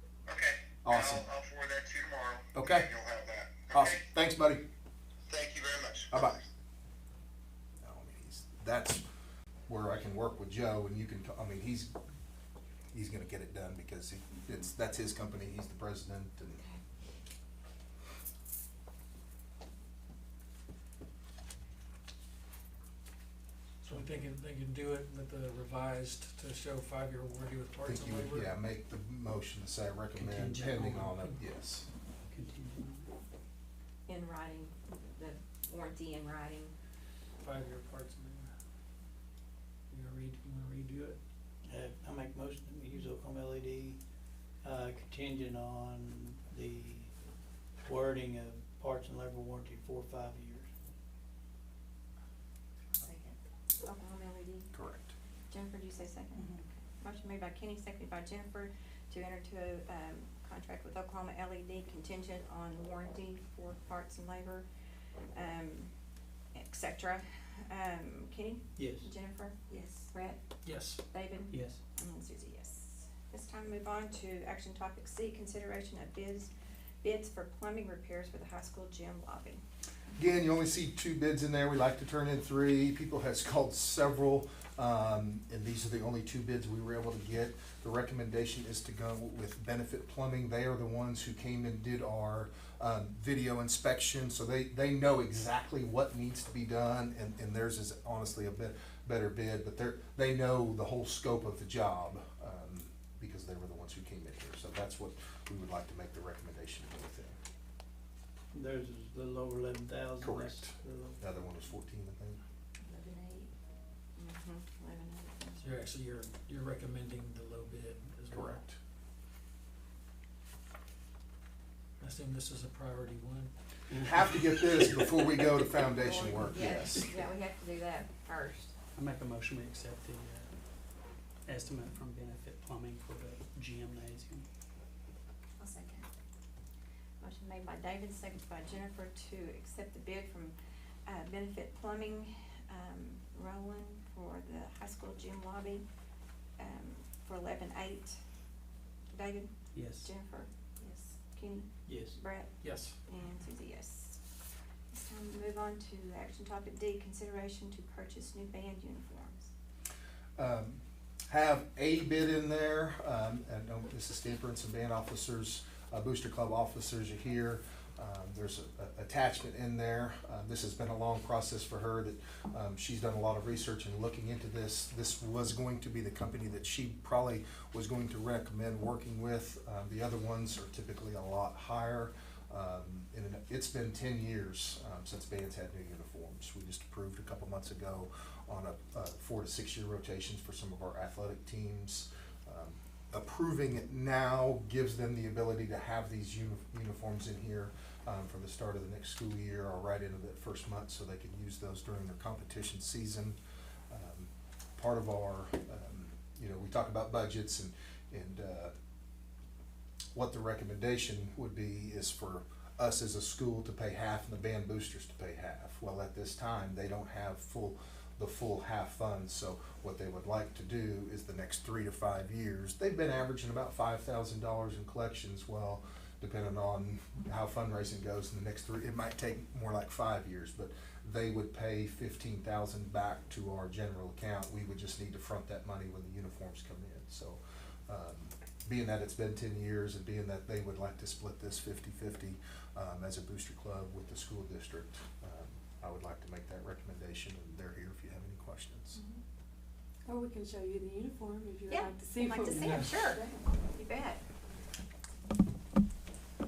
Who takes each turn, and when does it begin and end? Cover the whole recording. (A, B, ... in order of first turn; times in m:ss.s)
0:00.3-0:04.0 A
0:00.8-0:01.2 B
0:02.5-0:02.9 B
0:03.7-0:04.6 B
0:05.3-0:06.4 A
0:06.1-0:06.4 B
0:07.8-0:09.0 B
0:09.7-0:11.9 B
0:12.9-0:16.6 B
0:23.8-0:28.5 C
0:27.8-0:31.9 B
0:30.2-0:31.3 D
0:32.2-0:33.1 D
0:34.1-0:36.7 E
0:37.4-0:38.5 C
0:39.9-0:41.2 C
0:41.6-0:44.0 F
0:44.6-0:47.1 F
0:47.8-0:50.7 F
0:53.8-0:54.7 E
0:54.7-0:55.1 B
0:55.5-1:04.6 E
1:05.3-1:05.9 E
1:06.5-1:10.4 E
1:08.8-1:09.1 F
1:10.6-1:11.0 C
1:11.1-1:16.5 E
1:11.5-1:11.8 D
1:17.0-1:19.6 E
1:20.2-1:47.4 B
1:48.5-1:51.2 F
1:50.2-1:52.4 B
1:53.0-1:53.5 E
1:54.2-1:55.7 E
1:55.6-1:58.6 C
1:58.3-1:58.8 B
2:02.0-2:03.5 C
2:03.9-2:05.2 D
2:04.0-2:07.1 B
2:06.0-2:08.7 E
2:06.5-2:06.8 D
2:08.9-2:10.5 D
2:11.4-2:14.4 D
2:15.6-2:16.0 E
2:17.2-2:25.8 E
2:26.6-2:28.2 E
2:29.1-2:34.2 E
2:29.7-2:30.1 D
2:31.8-2:32.2 F
2:32.6-2:33.0 C
2:34.9-2:39.5 E
2:40.4-3:23.4 B
3:23.9-3:28.7 B
3:30.1-4:09.0 B
4:10.0-4:13.4 G
4:11.7-4:14.2 E
4:12.6-4:13.0 C